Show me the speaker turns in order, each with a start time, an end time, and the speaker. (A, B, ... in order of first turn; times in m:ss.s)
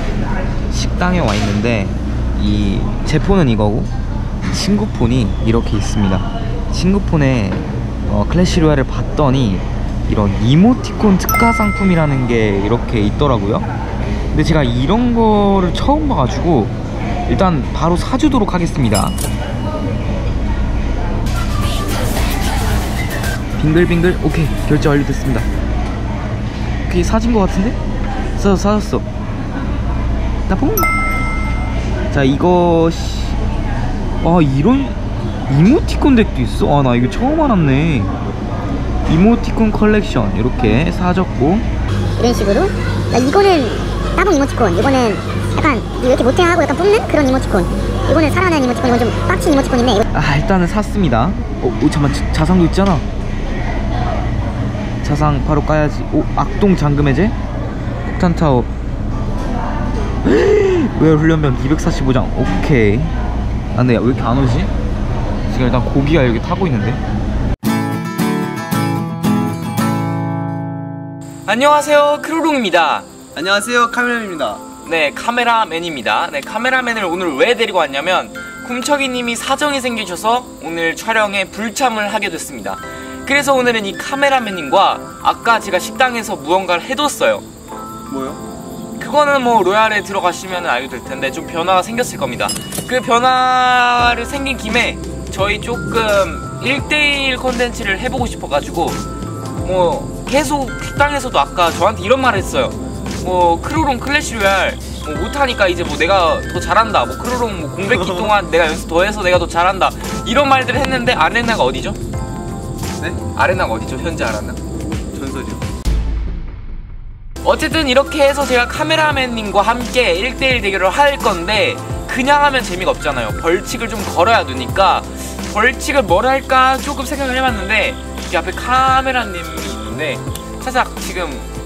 0:00.7-0:03.9 A
0:04.5-0:13.7 A
0:14.3-0:16.8 A
0:17.3-0:19.2 A
0:23.6-0:25.5 A
0:26.9-0:27.8 A
0:28.4-0:29.1 A
0:30.5-0:30.9 A
0:32.1-0:33.4 A
0:34.2-0:38.1 A
0:39.1-0:41.7 A
0:42.2-0:50.1 B
0:50.1-0:53.0 A
0:55.0-0:57.4 A
0:58.1-0:58.7 A
1:00.2-1:03.1 A
1:03.7-1:04.7 A
1:05.5-1:07.0 A
1:11.5-1:13.1 C
1:13.4-1:14.6 D
1:14.8-1:27.4 C
1:28.1-1:28.4 D
1:29.0-1:39.0 C
1:39.6-1:52.0 C
1:47.8-1:48.3 D
1:53.3-1:54.6 C
1:55.1-1:55.6 D
1:57.4-2:11.5 C